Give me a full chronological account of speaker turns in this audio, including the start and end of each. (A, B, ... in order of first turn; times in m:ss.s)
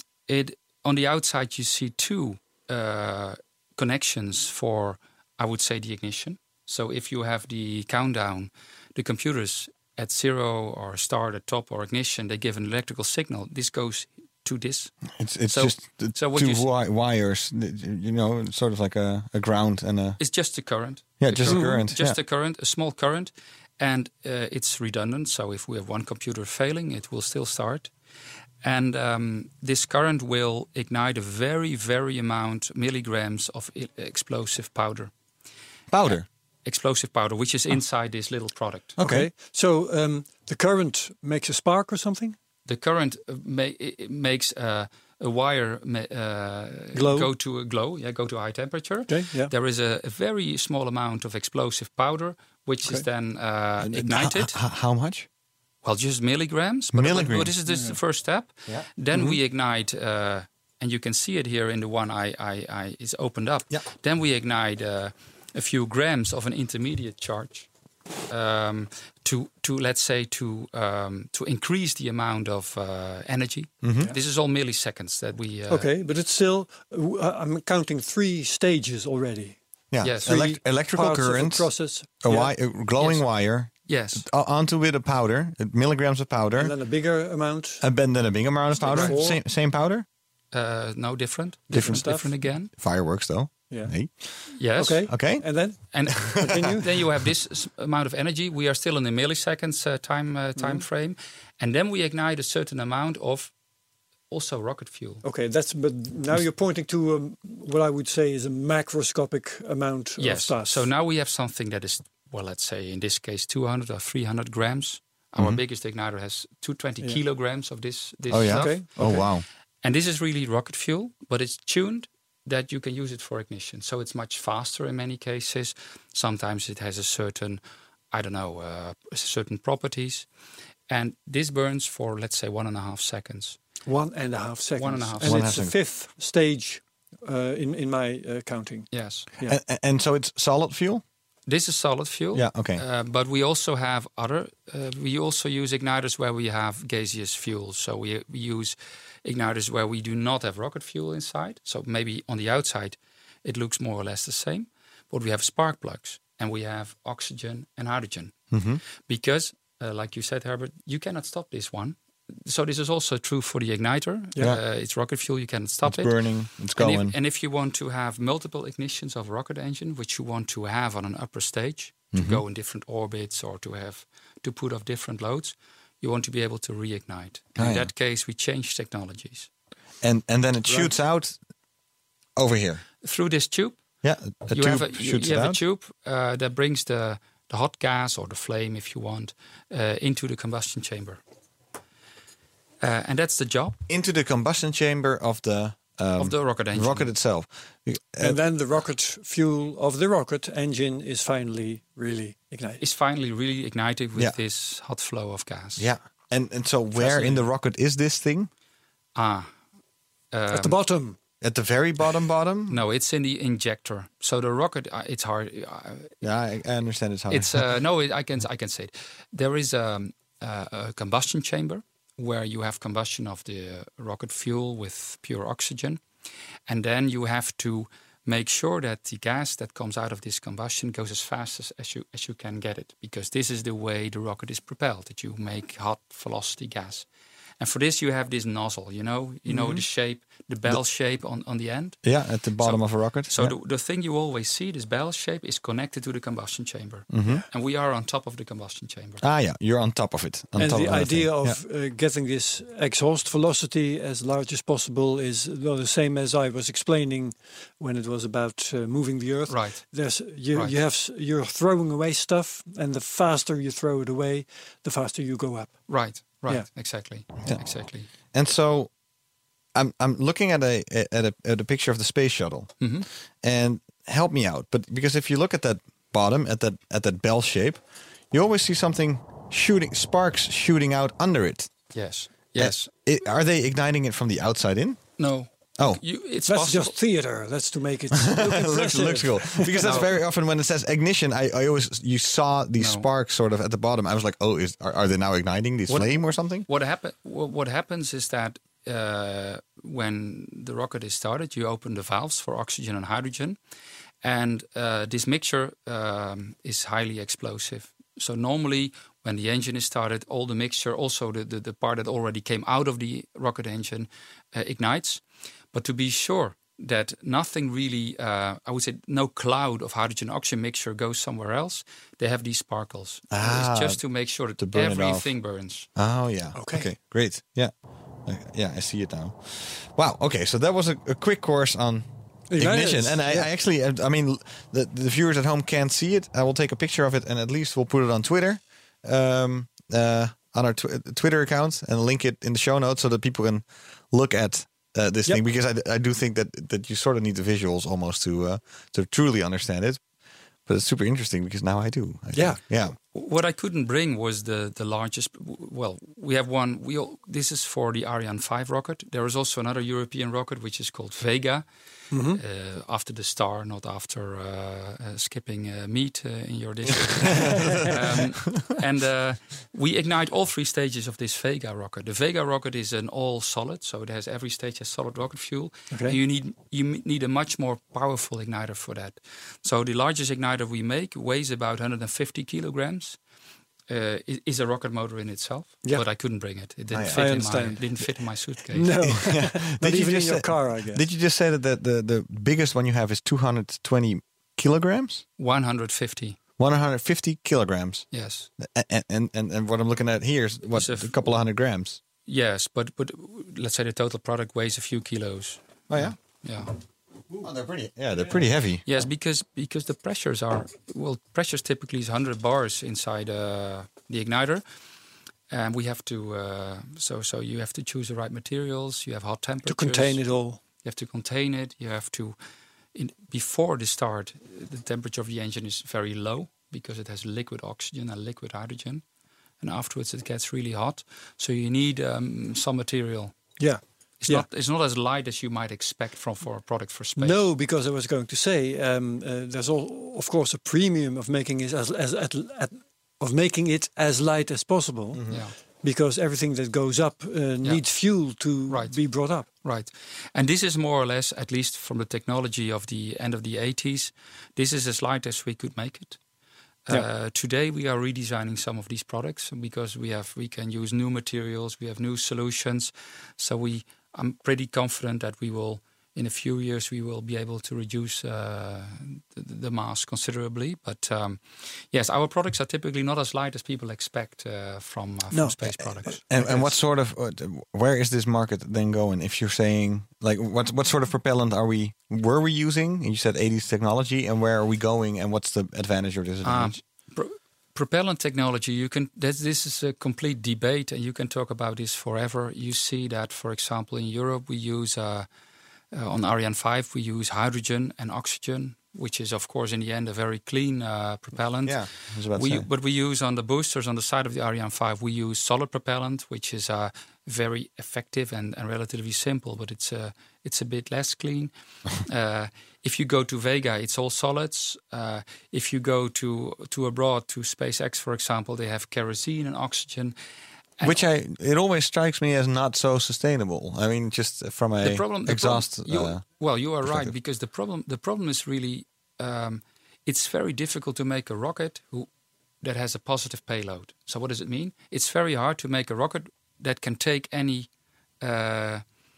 0:00.3-0:15.0 A
0:15.2-0:20.2 B
0:15.5-0:16.7 A
0:20.2-0:27.9 A
0:21.2-0:22.2 B
0:21.5-0:21.8 C
0:28.6-0:35.1 A
0:35.9-0:36.3 B
0:36.1-0:39.0 A
0:39.0-0:39.3 B
0:39.0-0:42.4 C
0:42.7-0:54.6 A
0:46.9-0:47.3 C
0:49.1-0:49.5 C
0:53.8-0:55.3 B
0:55.8-1:07.7 A
0:56.9-0:57.5 B
0:57.7-0:58.0 C
0:59.1-0:59.4 C
1:08.3-1:15.9 A
1:13.8-1:14.1 B
1:15.7-1:19.6 C
1:19.9-1:26.7 B
1:20.0-1:20.3 A
1:20.2-1:22.5 C
1:23.0-1:23.2 A
1:23.9-1:24.3 A
1:26.6-1:27.8 C
1:27.8-1:30.1 B
1:28.8-1:29.4 C
1:28.9-1:29.2 A
1:30.5-1:32.7 A
1:31.7-1:32.1 B
1:31.8-1:32.3 C
1:32.7-1:34.5 B
1:34.6-1:35.2 A
1:34.8-1:36.9 C
1:35.1-1:35.4 B
1:35.9-1:43.5 A
1:36.1-1:36.7 B
1:40.6-1:40.8 C
1:44.3-1:45.2 A
1:45.2-1:50.9 C
1:50.2-1:59.2 A
1:58.3-1:59.4 B
1:58.5-1:59.3 C
1:59.8-2:07.6 A
2:08.1-2:10.3 A
2:10.9-2:13.6 A
2:13.9-2:18.9 C
2:14.8-2:15.4 A
2:15.2-2:15.8 B
2:18.9-2:19.3 A
2:19.5-2:21.0 B
2:21.5-2:38.4 A
2:22.3-2:22.8 B
2:38.5-2:38.8 B
2:39.1-2:46.2 A
2:45.8-2:47.2 B
2:46.8-2:59.5 A
2:52.1-2:52.4 B
2:57.6-2:57.9 B
3:00.0-3:01.4 B
3:02.4-3:02.8 B
3:03.0-3:03.8 A
3:04.0-3:05.6 B
3:04.5-3:11.2 A
3:12.8-3:13.8 A
3:13.9-3:18.4 B
3:16.2-3:17.1 A
3:18.2-3:22.8 C
3:22.8-3:25.9 A
3:25.8-3:28.5 B
3:27.0-3:27.4 A
3:29.2-3:29.5 A
3:30.3-3:30.8 A
3:30.5-3:31.2 C
3:31.4-3:32.8 B
3:32.7-3:36.2 A
3:36.2-3:37.6 B
3:37.3-3:46.0 A
3:46.7-3:57.1 A
3:57.6-4:02.0 A
3:59.5-3:59.8 B
4:02.0-4:03.5 B
4:02.6-4:09.2 A
4:07.1-4:07.4 B
4:09.2-4:11.6 B
4:10.6-4:25.8 C
4:19.5-4:19.8 A
4:25.9-4:28.1 A
4:28.3-4:28.9 B
4:29.8-4:32.8 B
4:32.8-4:33.1 A
4:33.4-4:41.7 B
4:41.9-4:42.9 A
4:42.6-4:45.0 B
4:45.2-4:47.0 A
4:45.8-4:46.0 B
4:46.5-4:50.0 C
4:48.1-4:56.7 B
4:49.8-4:50.1 A
4:52.8-4:53.1 A
4:55.9-5:03.6 A
5:04.2-5:15.2 A
5:15.7-5:25.9 A
5:23.3-5:24.0 B
5:24.6-5:25.3 B
5:26.0-5:27.7 B
5:26.6-5:26.9 C
5:28.3-5:50.0 B
5:32.5-5:33.5 C
5:50.7-5:53.0 B
5:52.3-5:52.6 C
5:53.1-6:01.6 A
6:02.1-6:02.4 C
6:02.3-6:23.2 A
6:07.3-6:07.9 B
6:15.9-6:16.2 C
6:23.9-6:29.0 A
6:26.9-6:27.3 B
6:27.1-6:28.0 C
6:28.7-6:31.0 C
6:29.0-6:35.2 B
6:35.4-6:36.4 A
6:36.6-6:38.0 B
6:38.1-6:38.5 A
6:38.6-6:42.0 B
6:40.7-6:41.2 A
6:42.3-6:46.7 A
6:45.9-6:46.2 B
6:47.4-6:48.8 B
6:48.9-6:54.6 A
6:55.5-7:00.2 A
6:59.7-7:00.6 C
7:00.8-7:02.4 A
7:03.0-7:09.0 A
7:09.6-7:13.4 A
7:13.6-7:14.5 C
7:14.2-7:17.5 A
7:17.2-7:25.2 C
7:25.1-7:25.4 B
7:25.3-7:25.6 A
7:25.8-7:29.5 C
7:28.7-7:29.0 A
7:29.6-7:36.2 A
7:36.9-7:56.6 A
7:55.3-7:56.2 C
7:56.3-8:06.8 B
8:06.4-8:15.3 A
8:15.9-8:40.2 A
8:21.6-8:22.7 B
8:40.8-8:46.2 B
8:44.8-8:52.1 A
8:46.8-8:47.1 B
8:52.6-8:57.7 A
8:58.2-8:58.8 A